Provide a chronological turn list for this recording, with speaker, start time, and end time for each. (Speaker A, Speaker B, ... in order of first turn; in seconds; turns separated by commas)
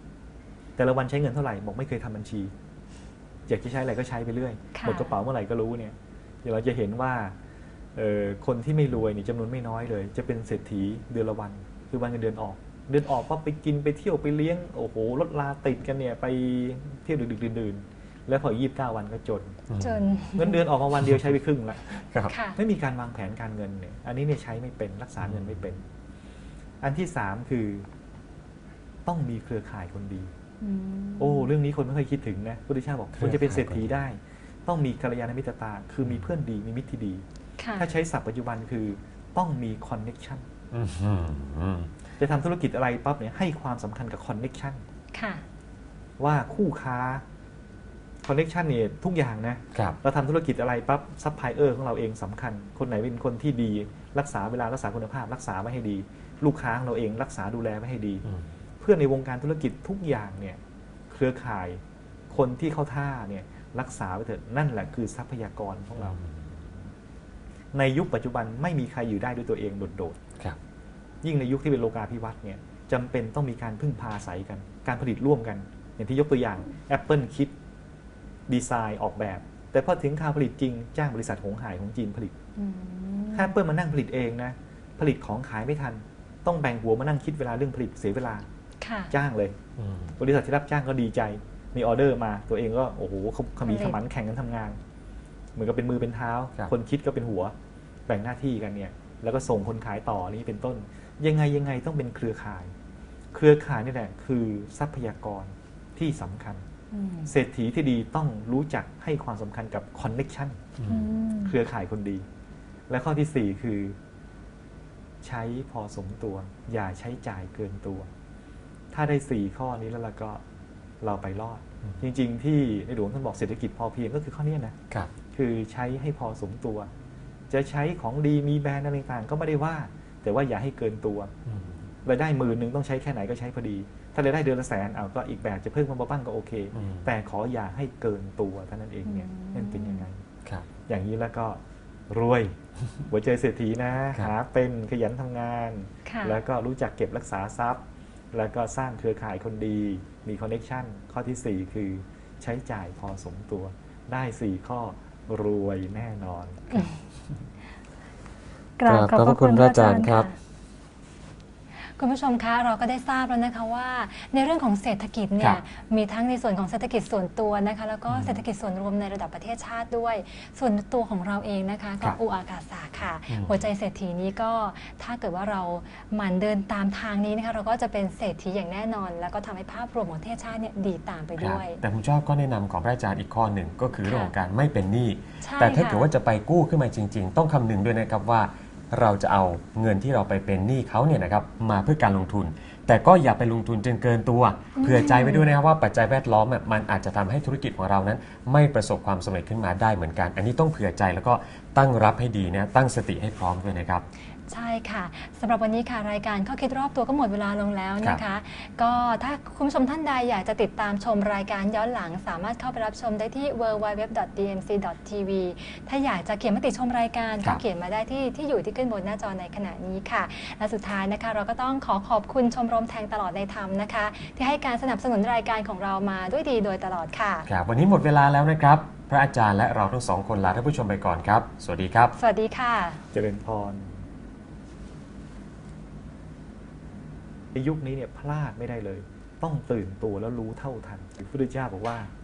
Speaker A: 0.8-2.5, Speaker A: 3.5-7.3, Speaker B: 4.7-5.1, Speaker A: 8.0-19.6, Speaker C: 19.7-20.2, Speaker B: 19.8-20.6, Speaker A: 20.3-21.9, Speaker C: 20.9-21.3, Speaker C: 21.9-22.3, Speaker B: 22.3-22.6, Speaker A: 22.5-25.8, Speaker C: 25.2-25.6, Speaker A: 26.8-27.9, Speaker A: 29.1-30.3, Speaker B: 30.6-31.5, Speaker A: 31.2-37.2, Speaker C: 33.1-33.9, Speaker B: 37.6-37.9, Speaker A: 37.8-40.5, Speaker C: 40.7-41.9, Speaker A: 42.2-44.8, Speaker B: 45.1-45.4, Speaker A: 46.2-47.2, Speaker A: 48.2-58.2, Speaker A: 58.8-66.2, Speaker C: 66.0-66.7, Speaker A: 67.7-70.2, Speaker A: 71.2-77.5, Speaker A: 78.5-82.3, Speaker B: 82.6-83.5, Speaker A: 83.3-88.5, Speaker B: 88.8-89.1, Speaker A: 89.1-89.6, Speaker C: 89.8-90.2, Speaker A: 90.2-94.8, Speaker B: 93.6-94.0, Speaker A: 95.5-97.5, Speaker A: 98.1-102.7, Speaker A: 103.3-106.6, Speaker B: 106.9-107.3, Speaker A: 107.2-110.6, Speaker C: 110.8-111.1, Speaker B: 110.9-111.5, Speaker A: 111.4-112.2, Speaker A: 112.9-114.0, Speaker A: 115.2-118.1, Speaker A: 118.9-120.4, Speaker A: 121.0-124.8, Speaker A: 125.3-126.9, Speaker A: 127.5-131.3, Speaker C: 131.4-131.9, Speaker A: 132.0-140.2, Speaker C: 136.7-137.1, Speaker B: 139.1-140.1, Speaker A: 140.8-156.9, Speaker B: 146.1-146.4, Speaker B: 158.8-160.3, Speaker C: 158.8-160.3, Speaker B: 162.0-181.8, Speaker C: 168.1-168.4, Speaker C: 173.3-173.7, Speaker C: 181.4-204.1, Speaker B: 184.0-184.3, Speaker B: 185.4-186.1, Speaker B: 194.8-195.5, Speaker B: 204.5-227.5, Speaker C: 227.5-232.1, Speaker B: 232.2-233.0, Speaker A: 233.1-233.9, Speaker A: 237.5-242.1